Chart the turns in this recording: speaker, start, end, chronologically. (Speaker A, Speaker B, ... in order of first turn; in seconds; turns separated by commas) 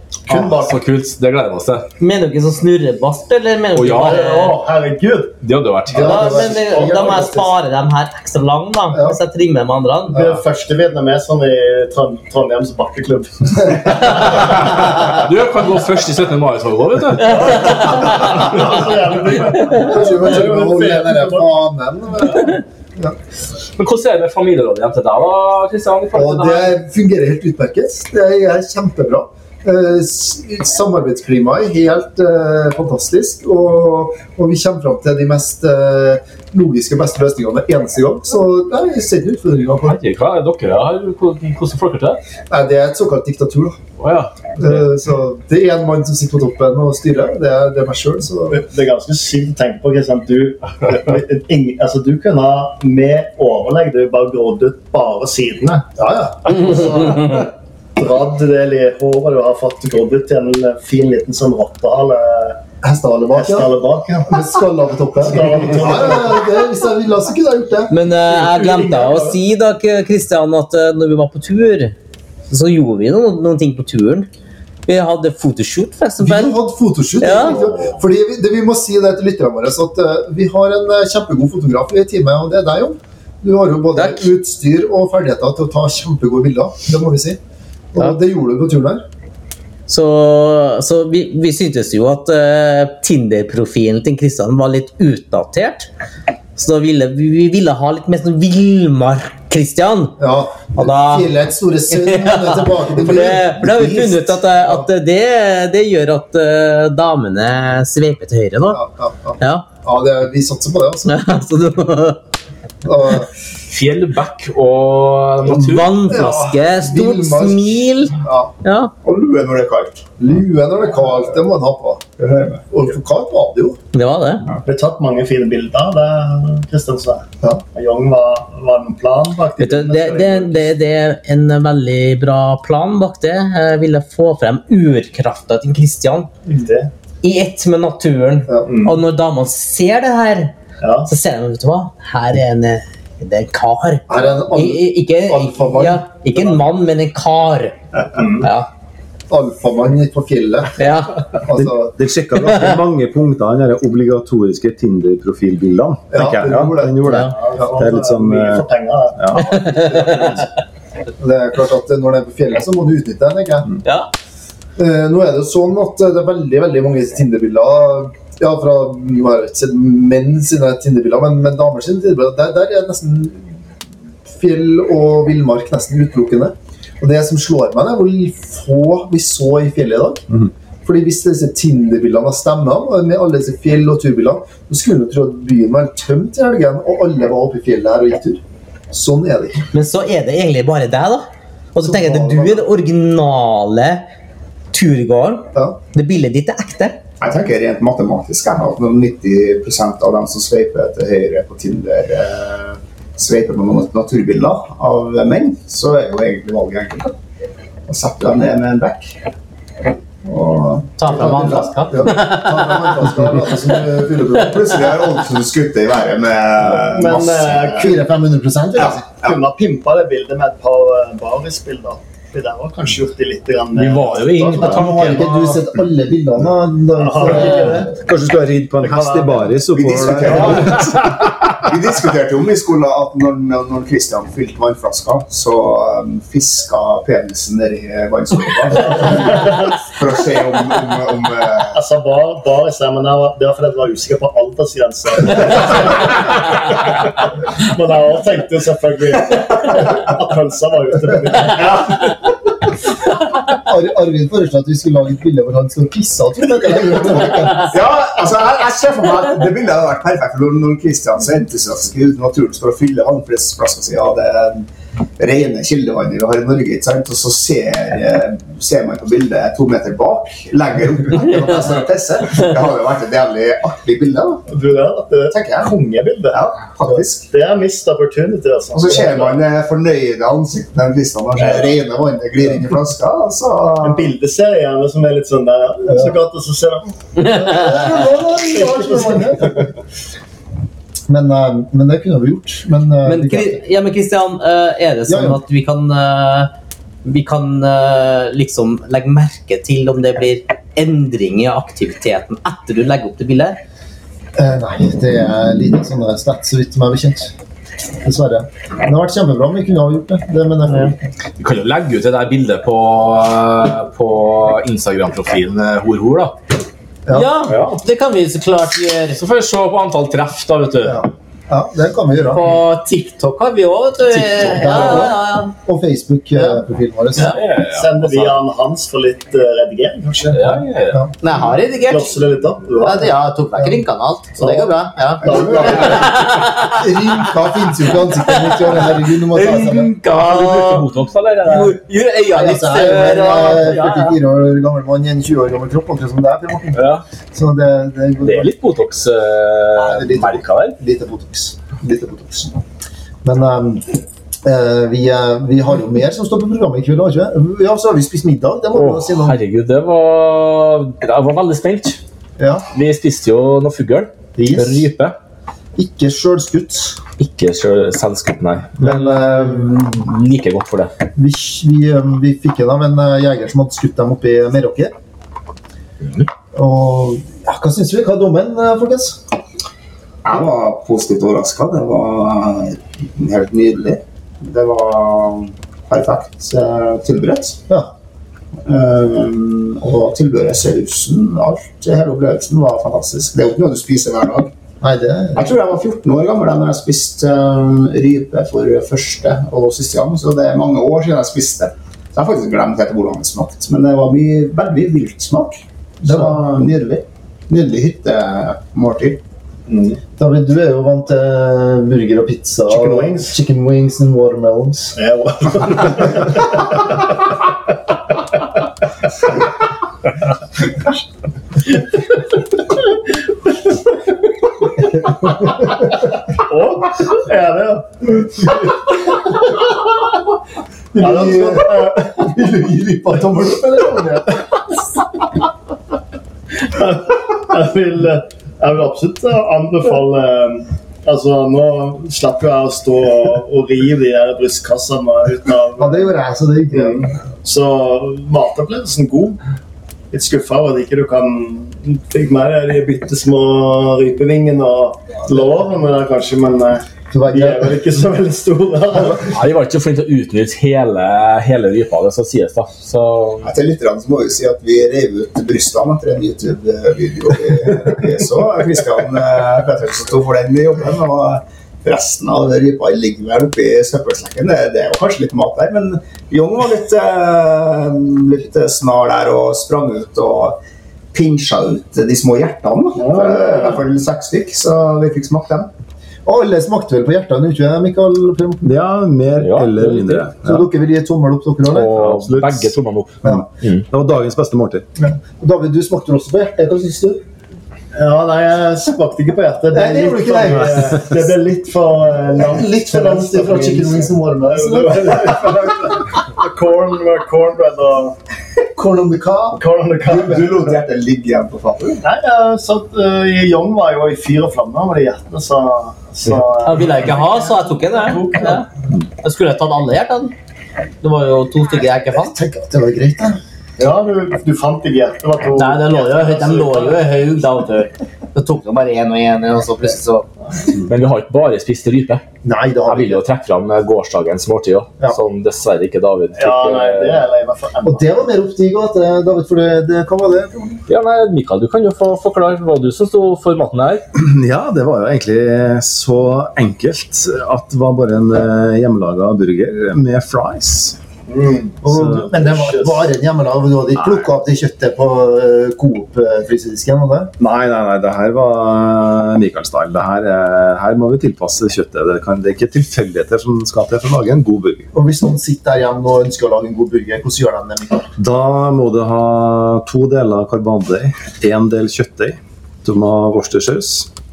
Speaker A: 0.3-0.8, Speaker B: 0.3-1.9, Speaker C: 2.0-4.5, Speaker B: 3.7-4.3, Speaker A: 3.9-5.3, Speaker B: 5.4-6.5, Speaker D: 5.9-7.5, Speaker C: 6.0-10.3, Speaker D: 8.9-9.2, Speaker A: 10.1-14.8, Speaker B: 14.2-18.8, Speaker C: 17.2-18.4, Speaker A: 17.2-21.4, Speaker D: 19.7-23.1, Speaker B: 23.8-26.7, Speaker D: 26.1-40.0, Speaker B: 39.8-42.2, Speaker D: 42.5-43.8, Speaker B: 44.0-44.8, Speaker D: 44.6-48.6, Speaker A: 48.5-55.9, Speaker D: 56.0-57.2, Speaker A: 56.5-62.6, Speaker D: 62.8-63.7, Speaker A: 63.3-64.4, Speaker D: 64.3-67.9, Speaker A: 65.2-66.4, Speaker C: 67.9-71.9, Speaker A: 68.2-69.4, Speaker C: 72.5-74.3, Speaker C: 74.9-76.5, Speaker D: 76.2-87.4, Speaker C: 77.2-77.6, Speaker C: 83.9-84.3, Speaker D: 87.9-89.0, Speaker C: 89.9-95.9, Speaker C: 96.5-100.2, Speaker D: 100.2-104.9, Speaker C: 100.7-101.3, Speaker C: 101.9-108.8, Speaker D: 108.7-111.2, Speaker C: 109.4-109.7, Speaker C: 111.0-112.2, Speaker D: 112.8-113.3, Speaker B: 113.7-116.0, Speaker C: 115.5-118.9, Speaker D: 116.1-118.5, Speaker E: 119.0-120.1, Speaker D: 120.2-122.0, Speaker E: 122.2-122.6, Speaker D: 122.7-123.8, Speaker C: 123.9-124.5, Speaker A: 124.6-130.7, Speaker C: 129.6-136.3, Speaker A: 136.4-136.9, Speaker C: 137.2-140.5, Speaker A: 138.7-139.0, Speaker A: 140.8-141.1, Speaker C: 141.1-147.8, Speaker D: 144.1-146.4, Speaker A: 148.1-148.5, Speaker C: 148.4-148.7, Speaker D: 149.3-150.8, Speaker C: 150.8-151.2, Speaker D: 151.4-151.9, Speaker F: 151.5-158.6, Speaker D: 156.1-157.8, Speaker C: 157.0-157.3, Speaker A: 157.3-159.4, Speaker F: 159.2-160.4, Speaker C: 159.4-160.2, Speaker D: 161.2-163.7, Speaker C: 163.8-164.1, Speaker D: 164.8-173.6, Speaker D: 174.3-180.2, Speaker D: 180.8-189.6, Speaker C: 189.7-194.1, Speaker D: 191.8-192.7, Speaker C: 194.7-197.0, Speaker E: 197.2-207.2, Speaker E: 207.9-209.2, Speaker E: 210.2-211.8, Speaker C: 211.0-213.3, Speaker D: 211.1-214.8, Speaker E: 214.3-217.7, Speaker A: 216.9-218.0, Speaker D: 217.7-219.0, Speaker E: 218.9-219.3, Speaker A: 219.2-225.1, Speaker B: 223.7-225.6, Speaker D: 224.6-227.9, Speaker A: 227.0-228.0, Speaker F: 227.9-231.7, Speaker A: 228.8-229.6, Speaker E: 229.7-231.0, Speaker E: 231.6-241.8, Speaker A: 238.8-239.7, Speaker A: 241.7-252.2, Speaker D: 253.5-257.7, Speaker E: 257.6-264.7, Speaker E: 265.2-274.4, Speaker A: 274.5-276.6, Speaker E: 275.3-275.7, Speaker E: 276.3-277.3, Speaker A: 277.3-279.4, Speaker E: 278.7-284.1, Speaker A: 283.8-289.6, Speaker D: 285.8-286.2, Speaker D: 287.2-289.7, Speaker D: 291.1-293.6, Speaker C: 293.0-296.5, Speaker D: 295.1-295.4, Speaker C: 297.0-303.6, Speaker D: 304.4-307.3, Speaker D: 308.0-311.0, Speaker B: 311.4-316.4, Speaker D: 317.1-317.3, Speaker C: 317.1-319.2, Speaker B: 317.5-317.8, Speaker B: 319.2-321.0, Speaker D: 320.8-322.4, Speaker C: 322.2-325.5, Speaker D: 324.1-327.4, Speaker B: 327.1-328.4, Speaker A: 327.7-330.4, Speaker D: 330.2-331.1, Speaker B: 330.3-331.0, Speaker C: 331.2-332.2, Speaker A: 331.9-333.1, Speaker C: 332.8-336.8, Speaker D: 333.6-333.8, Speaker A: 334.4-334.7, Speaker A: 335.2-336.2, Speaker D: 335.2-339.9, Speaker C: 338.2-340.9, Speaker B: 340.1-341.8, Speaker C: 341.4-344.1, Speaker D: 342.3-348.5, Speaker B: 346.7-347.0, Speaker B: 348.2-350.8, Speaker D: 349.8-352.6, Speaker D: 353.2-359.4, Speaker B: 358.7-362.0, Speaker D: 362.4-362.6, Speaker B: 362.7-365.1, Speaker D: 364.4-364.9, Speaker D: 365.8-367.0, Speaker B: 367.2-370.9, Speaker D: 368.8-369.9, Speaker D: 371.1-374.9, Speaker B: 376.0-376.3, Speaker D: 376.5-379.2, Speaker E: 380.2-387.6, Speaker E: 388.6-394.5, Speaker D: 394.8-395.5, Speaker E: 395.4-409.2, Speaker D: 406.0-406.4, Speaker A: 409.7-410.0, Speaker D: 410.2-414.9, Speaker A: 412.7-413.3, Speaker A: 414.9-417.1, Speaker A: 426.3-428.8, Speaker D: 430.9-434.4, Speaker A: 431.0-432.3, Speaker A: 436.6-446.1, Speaker D: 445.8-447.1, Speaker A: 446.7-449.4, Speaker A: 450.1-459.3, Speaker D: 457.1-457.7, Speaker B: 459.3-463.5, Speaker E: 463.4-480.6, Speaker E: 481.1-485.7, Speaker A: 482.9-483.8, Speaker D: 486.2-488.7, Speaker F: 488.6-490.6, Speaker B: 489.4-490.3, Speaker D: 490.4-492.6, Speaker B: 491.6-493.8, Speaker F: 493.2-494.8, Speaker D: 495.0-497.2, Speaker A: 497.9-508.1, Speaker D: 499.7-501.2, Speaker D: 502.4-505.8, Speaker D: 508.7-509.6, Speaker A: 509.5-510.4, Speaker E: 510.1-512.0, Speaker A: 512.0-518.6, Speaker C: 516.6-518.7, Speaker C: 519.2-520.3, Speaker C: 521.0-522.4, Speaker D: 522.1-523.4, Speaker A: 523.8-527.2, Speaker C: 525.5-530.2, Speaker B: 530.9-532.2, Speaker D: 532.4-533.2, Speaker B: 532.9-537.2, Speaker A: 536.4-538.2, Speaker D: 537.8-540.8, Speaker B: 540.9-544.0, Speaker F: 544.1-551.0, Speaker A: 551.3-553.1, Speaker D: 551.8-557.3, Speaker F: 551.9-552.2, Speaker F: 557.4-564.9, Speaker D: 564.9-568.1, Speaker F: 568.2-574.1